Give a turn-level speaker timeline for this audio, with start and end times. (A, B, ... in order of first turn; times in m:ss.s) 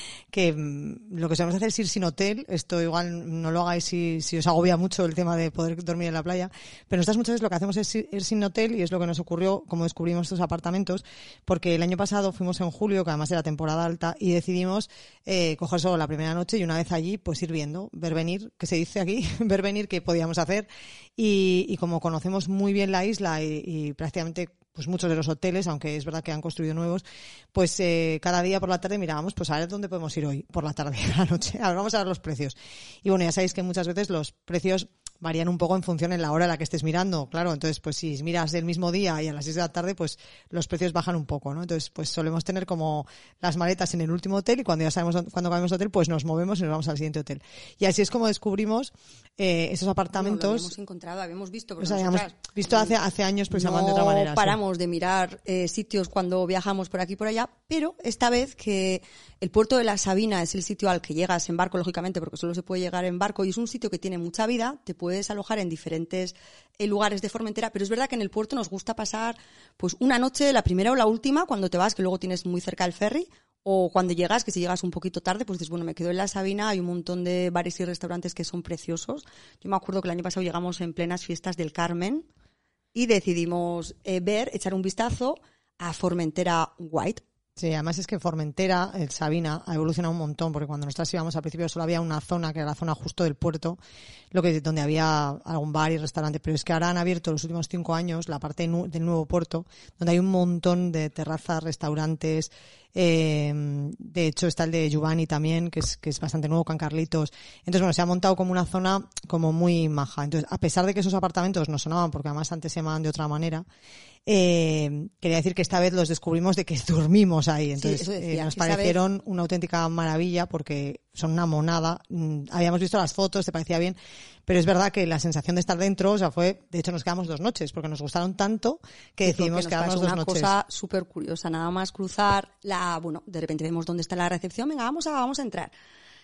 0:00.3-0:50.7 A
0:50.1-0:52.9 B
0:51.8-0:54.6 A
0:53.5-1:22.3 B
1:22.9-1:27.2 B
1:27.6-1:33.8 A
1:34.3-1:53.6 A
1:54.2-2:10.5 A
1:57.8-1:59.0 B
2:09.2-2:15.7 B